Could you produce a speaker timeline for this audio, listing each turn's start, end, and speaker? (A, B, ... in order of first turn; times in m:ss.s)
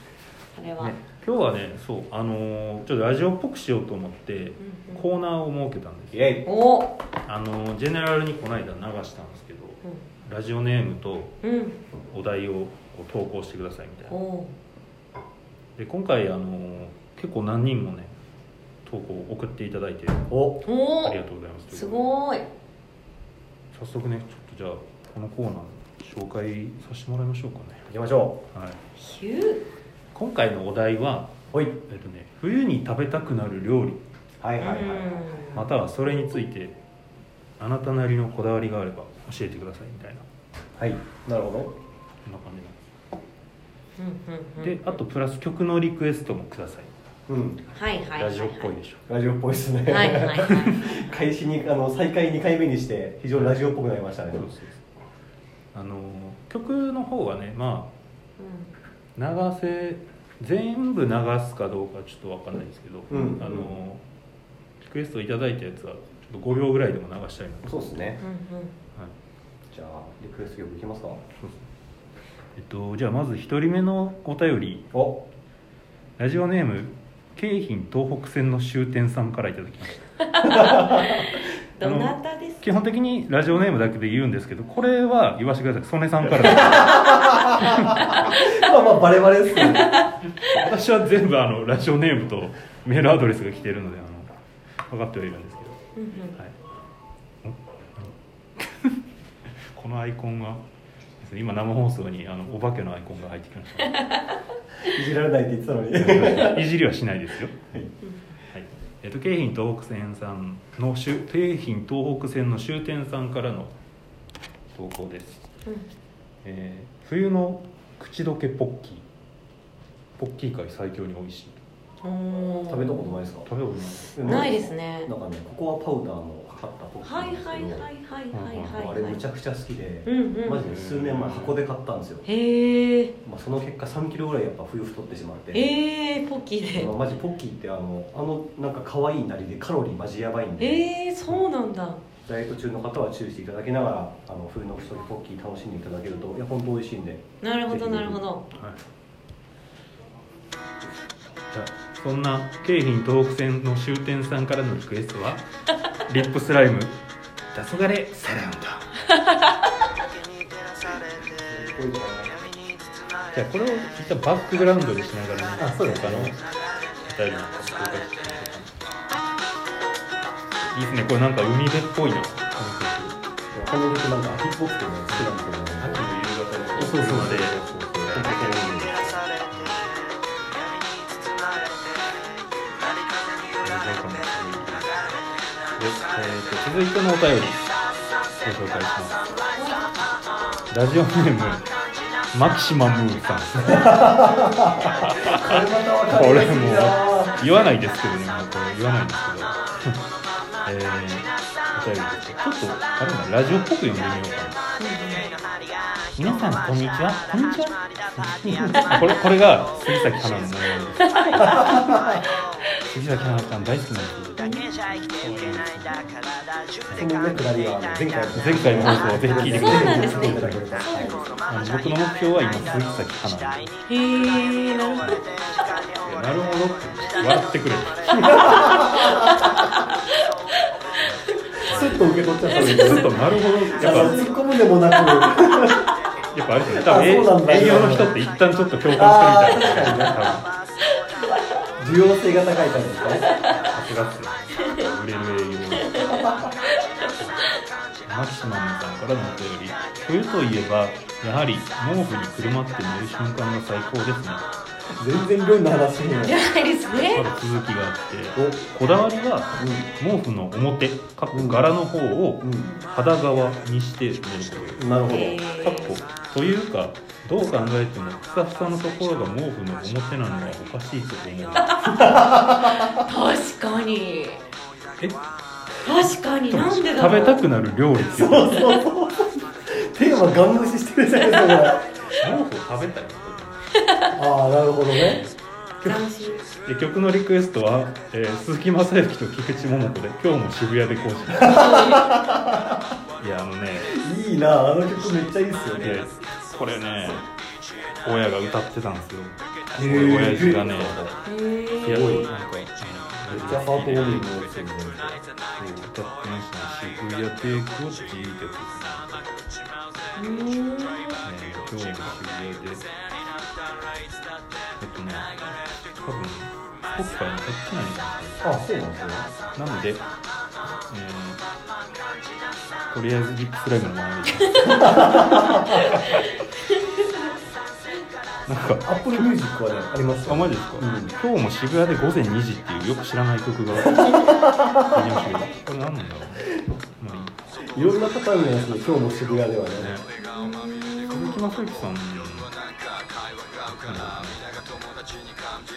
0:00.5-0:01.0 A
0:00.8-0:06.3 B
0:04.6-0:05.0 A
0:06.1-0:06.4 C
0:06.4-0:06.9 A
0:07.2-0:11.4 B
0:11.4-0:11.8 A
0:12.1-0:14.2 B
0:14.1-0:14.5 A
0:15.8-0:18.1 B
0:18.8-0:20.3 B
0:20.3-0:20.6 C
0:20.6-0:21.2 A
0:21.0-0:22.0 B
0:21.7-0:22.4 A
0:23.7-0:27.9 B
0:27.9-0:28.4 C
0:28.5-0:28.8 B
0:29.0-0:29.6 A
0:30.1-0:34.0 B
0:34.4-0:35.2 C
0:34.6-0:35.6 A
0:35.5-0:36.8 B
0:37.6-0:40.2 B
0:40.8-0:41.7 C
0:42.2-0:42.9 B
0:44.0-0:45.0 A
0:44.6-0:46.9 B
0:47.3-0:47.6 C
0:47.7-0:48.7 A
0:48.1-0:49.0 B
0:49.1-0:54.5 C
0:49.9-0:50.9 A
0:54.3-0:54.8 B
0:55.7-0:57.9 B
0:58.4-0:58.7 A
0:59.2-1:04.0 B
1:03.1-1:03.7 A
1:03.1-1:03.7 C
1:04.8-1:07.8 B
1:07.6-1:08.2 C
1:08.2-1:08.7 A
1:09.7-1:11.2 C
1:12.6-1:14.9 B
1:14.9-1:15.2 C
1:16.2-1:20.0 B
1:20.2-1:22.8 A
1:20.5-1:21.2 C
1:21.8-1:28.3 B
1:26.4-1:29.9 C
1:29.6-1:30.5 A
1:30.4-1:34.3 B
1:34.9-1:35.8 B
1:36.0-1:36.3 A
1:37.4-1:39.0 B
1:39.6-1:40.6 B
1:41.2-1:44.1 B
1:44.8-1:46.7 C
1:46.0-1:47.6 B
1:48.5-1:53.7 B
1:54.7-1:55.4 B
1:56.4-1:59.0 B
2:00.2-2:01.6 B
2:02.0-2:03.1 A
2:02.7-2:03.5 C
2:03.4-2:04.3 B
2:04.1-2:07.9 C
2:04.2-2:05.1 A
2:07.0-2:09.2 A
2:08.3-2:08.9 B
2:08.7-2:12.2 C
2:10.0-2:10.6 A
2:10.6-2:11.6 B
2:12.2-2:13.1 A
2:13.2-2:15.6 C
2:15.5-2:16.9 A
2:16.7-2:20.8 C
2:20.6-2:22.0 A
2:22.2-2:28.2 C
2:27.4-2:28.4 A
2:28.5-2:28.8 B
2:31.5-2:35.4 B
2:36.1-2:37.0 B
2:37.5-2:38.9 B
2:39.1-2:39.5 A
2:41.3-2:42.4 C
2:43.3-2:46.5 B
2:45.6-2:46.3 C
2:47.0-2:48.8 B
2:50.6-2:53.2 B
2:53.5-2:56.1 C
2:55.1-2:58.5 B
2:56.8-2:59.3 C
2:59.5-2:59.9 B
3:03.6-3:05.2 B
3:05.7-3:07.7 B
3:08.3-3:09.3 B
3:09.5-3:09.9 A
3:10.7-3:11.7 B
3:12.3-3:20.0 B
3:13.7-3:17.5 C
3:20.6-3:24.6 B
3:24.8-3:25.3 A
3:26.2-3:32.2 B
3:31.0-3:31.8 A
3:31.4-3:32.0 C
3:32.9-3:36.2 B
3:34.4-3:34.7 A
3:37.0-3:41.3 C
3:38.3-3:40.8 B
3:38.8-3:41.3 A
3:41.4-3:43.7 B
3:43.9-3:45.2 A
3:46.0-3:49.1 B
3:48.3-3:49.3 C
3:49.0-3:49.5 A
3:50.1-3:50.7 A
3:51.0-3:54.3 B
3:51.7-3:53.1 C
3:52.5-3:53.2 A
3:53.7-3:55.9 C
3:53.8-3:54.3 A
3:56.3-4:00.5 B
3:56.7-3:58.1 C
3:58.9-4:00.3 C
4:00.8-4:01.4 A
4:01.8-4:03.3 C
4:03.5-4:06.3 B
4:05.8-4:07.6 A
4:08.0-4:14.4 B
4:15.0-4:16.4 C
4:16.2-4:17.2 A
4:16.9-4:32.3 B
4:19.6-4:19.9 C
4:21.3-4:21.7 C
4:22.4-4:22.7 C
4:22.6-4:22.9 A
4:24.8-4:25.4 C
4:25.1-4:26.0 A
4:31.9-4:32.9 C
4:32.8-4:34.4 A
4:35.8-4:37.4 A
4:36.5-4:38.8 B
4:38.1-4:41.8 C
4:42.1-4:43.6 B
4:43.8-4:44.1 A
4:44.1-4:45.2 C
4:45.0-4:51.7 B
4:45.8-4:46.4 A
4:51.3-4:52.8 C
4:51.5-4:52.1 A
4:53.2-4:54.0 B
4:53.9-4:56.1 C
4:55.7-4:57.2 B
4:58.0-5:01.1 B
4:59.7-5:01.1 C
5:01.2-5:02.2 A
5:01.8-5:04.4 B
5:01.9-5:02.3 C
5:03.3-5:05.2 C
5:05.6-5:09.3 B
5:10.2-5:11.2 A
5:11.2-5:12.9 B
5:14.8-5:18.6 B
5:18.4-5:19.3 C
5:19.5-5:20.0 B
5:20.9-5:21.4 B
5:22.9-5:25.3 B
5:24.5-5:27.3 A
5:24.6-5:25.8 C
5:28.4-5:28.8 B
5:28.8-5:31.1 C
5:30.2-5:37.5 B
5:33.8-5:35.4 C
5:37.7-5:39.9 C
5:39.8-5:40.1 B
5:40.2-5:41.4 A
5:41.1-5:42.5 B
5:43.6-5:44.8 B